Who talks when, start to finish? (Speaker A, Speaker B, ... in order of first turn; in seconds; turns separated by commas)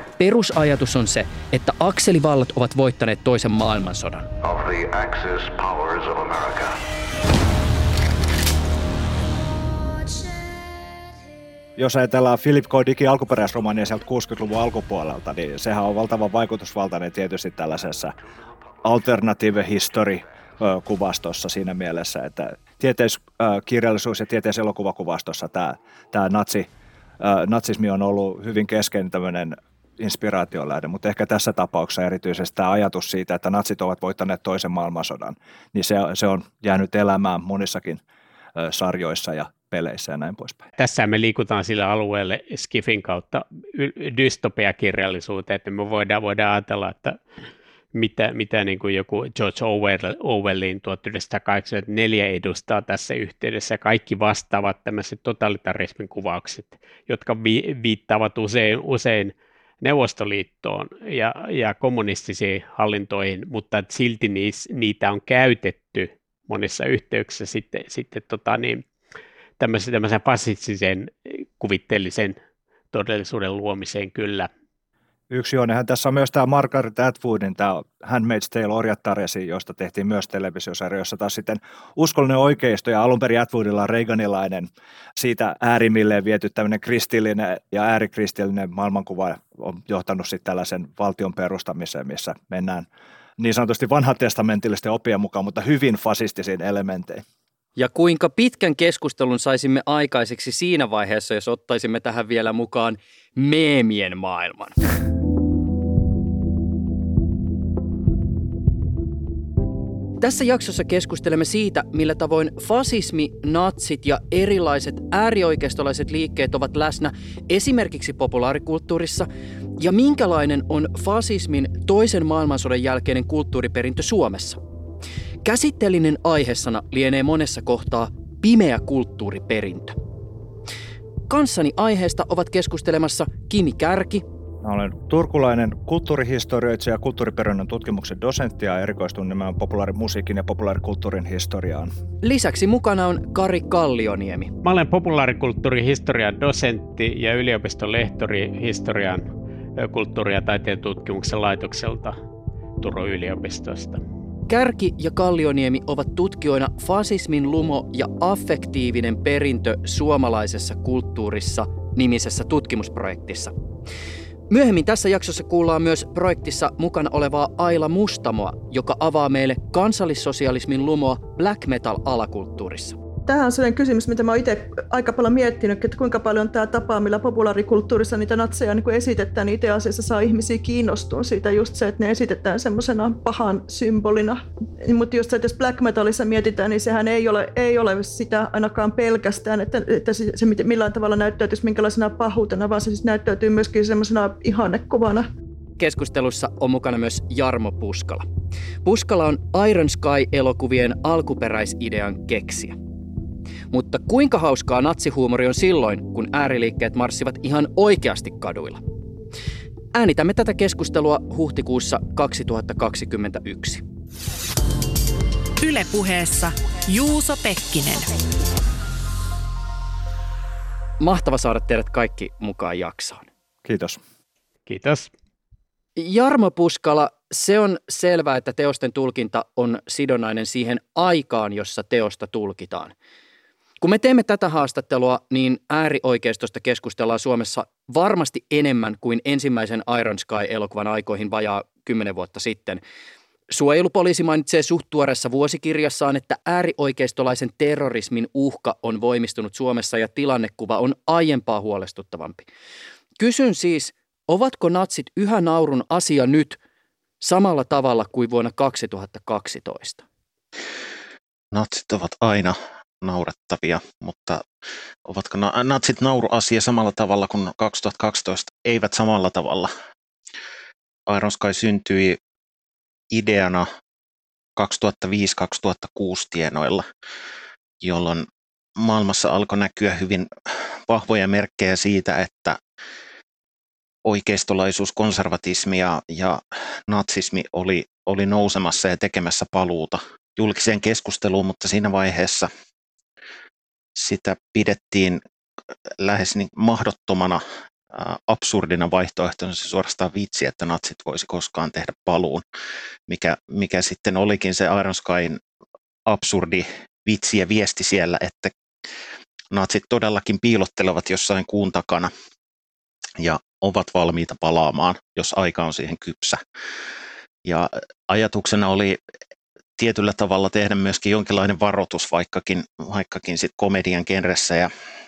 Speaker A: 0.2-4.3, Speaker B: 4.4-6.7, Speaker C: 11.8-18.1, Speaker C: 18.8-26.7, Speaker C: 27.2-38.0, Speaker C: 38.6-40.6, Speaker D: 40.8-47.2, Speaker D: 47.9-68.8, Speaker D: 69.6-72.4, Speaker D: 72.9-74.5, Speaker C: 75.3-97.2, Speaker A: 97.8-104.8, Speaker A: 110.2-124.6, Speaker A: 125.5-130.0, Speaker A: 131.3-134.2, Speaker C: 134.6-141.9, Speaker A: 142.2-144.5, Speaker D: 144.6-152.2, Speaker D: 152.8-154.0, Speaker A: 154.5-163.5, Speaker A: 164.5-173.0, Speaker E: 173.3-195.3, Speaker A: 195.8-198.3, Speaker A: 198.8-202.8, Speaker A: 203.7-208.8, Speaker A: 209.9-213.8, Speaker F: 215.6-218.2, Speaker A: 221.0-223.3, Speaker C: 223.7-224.0, Speaker D: 224.7-225.1, Speaker A: 226.0-232.9, Speaker A: 233.8-242.8, Speaker A: 243.5-252.5, Speaker A: 253.2-256.6, Speaker A: 257.2-260.0, Speaker G: 261.5-264.4, Speaker G: 265.1-269.7, Speaker G: 271.1-272.2, Speaker G: 273.1-273.7, Speaker G: 274.6-276.9, Speaker G: 277.8-278.3, Speaker G: 278.8-280.3, Speaker G: 280.9-282.6, Speaker G: 284.1-292.5, Speaker G: 294.0-295.2, Speaker G: 296.0-302.4, Speaker G: 303.1-305.4, Speaker G: 306.1-308.5, Speaker G: 309.5-312.1, Speaker G: 313.2-316.4, Speaker G: 317.5-319.0, Speaker G: 319.8-324.7